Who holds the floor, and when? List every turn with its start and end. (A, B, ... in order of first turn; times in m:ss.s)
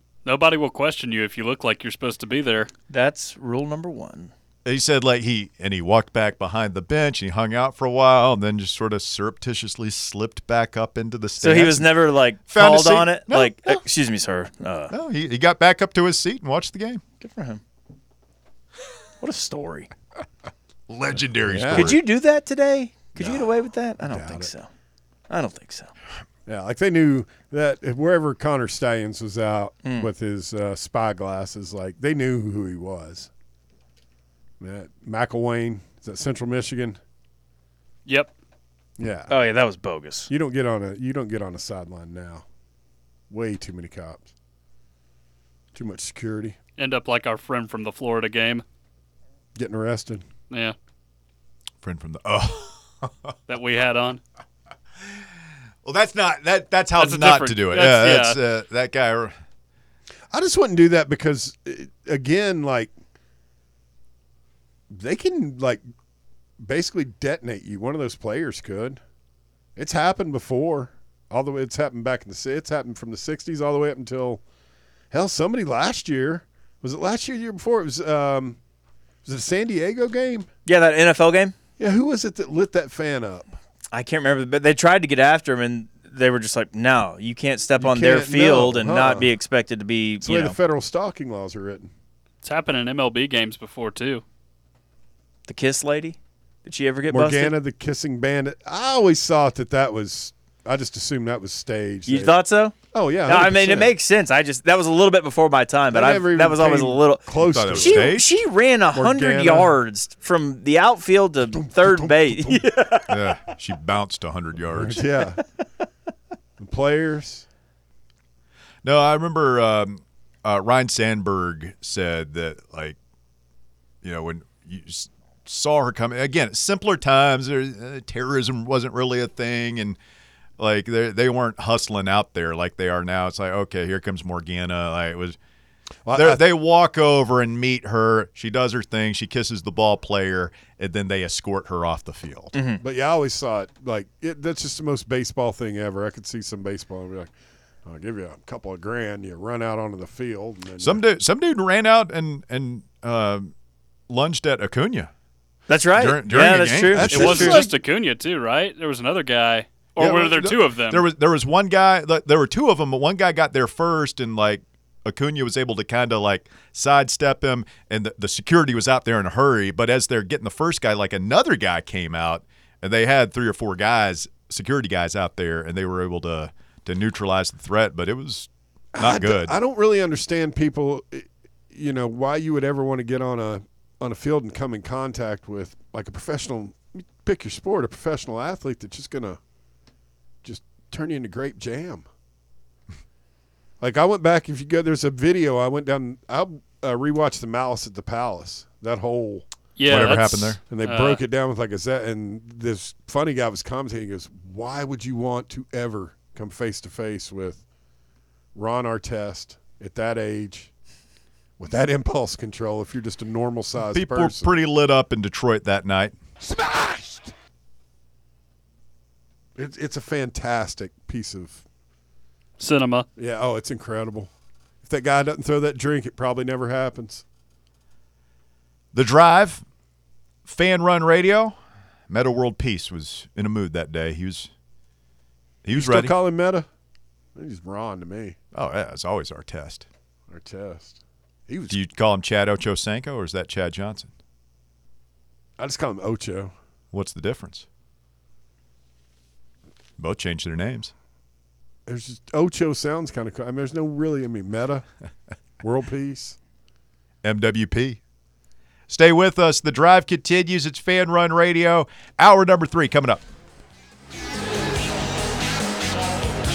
0:00.2-0:02.7 A
0:02.9-0:04.3 B
0:04.6-0:13.8 C
0:11.4-0:14.9 B
0:14.9-0:17.0 C
0:17.2-0:17.6 B
0:19.2-0:19.9 B
0:20.9-0:22.0 C
0:21.4-0:22.0 D
0:21.7-0:24.7 B
0:23.2-0:24.5 D
0:25.3-0:25.9 B
0:26.5-0:33.3 D
0:29.8-0:30.1 B
0:34.6-0:37.0 D
0:38.1-0:38.3 A
0:39.0-0:39.3 D
0:39.3-0:40.3 B
0:40.3-0:42.4 D
0:43.3-0:44.3 D
0:45.7-0:46.6 D
0:46.8-0:48.6 A
0:49.6-0:50.2 D
0:51.8-0:53.4 C
0:53.5-0:54.2 A
0:55.8-0:59.4 C
0:57.0-0:58.4 A
1:00.3-1:02.9 D
1:04.9-1:05.8 D
1:06.6-1:09.0 D
1:09.8-1:14.4 D
1:15.1-1:18.6 D
1:19.2-1:20.5 D
1:20.7-1:21.6 B
1:21.8-1:23.5 D
1:23.9-1:30.6 B
1:27.8-1:29.3 D
1:30.2-1:31.9 D
1:32.4-1:34.2 A
1:35.5-1:37.6 B
1:37.1-1:42.4 D
1:42.1-1:53.1 B
1:42.9-1:43.9 D
1:45.9-1:48.2 D
1:47.4-1:48.3 C
1:48.9-1:49.8 D
1:51.4-1:52.9 D
1:53.1-1:55.0 C
1:54.7-1:55.4 D
1:56.6-1:57.5 D
1:58.8-2:03.0 C
2:04.0-2:10.0 C
2:10.6-2:15.4 C
2:16.0-2:16.4 D
2:16.2-2:22.5 C
2:22.5-2:22.8 B
2:22.8-2:27.3 D
2:27.8-2:31.0 D
2:30.8-2:33.5 C
2:34.1-2:35.1 C
2:35.7-2:37.6 B
2:35.9-2:37.7 C
2:36.9-2:37.7 D
2:37.1-2:41.0 A
2:40.0-2:59.5 C
2:59.0-3:09.4 D
3:10.4-3:12.1 D
3:13.8-3:19.4 D
3:19.8-3:21.2 A
3:19.9-3:20.6 C
3:20.7-3:27.6 D
3:28.6-3:30.7 D
3:31.6-3:34.5 D
3:33.9-3:36.2 C
3:36.4-3:37.3 D
3:39.6-3:41.6 D
3:42.6-3:43.0 A
3:43.2-3:44.3 D
3:44.8-3:47.2 D
3:48.9-3:49.6 C
3:50.5-3:51.6 C
3:52.1-3:54.5 C
3:55.6-3:56.2 C
3:55.7-3:56.7 D
3:57.4-3:58.4 D
3:58.5-3:59.9 C
4:00.3-4:01.8 D
4:01.7-4:04.1 C
4:05.6-4:06.5 D
4:06.9-4:07.7 C
4:10.0-4:10.9 C
4:11.9-4:14.8 D
4:15.6-4:16.4 D
4:17.2-4:18.0 C
4:18.9-4:23.2 C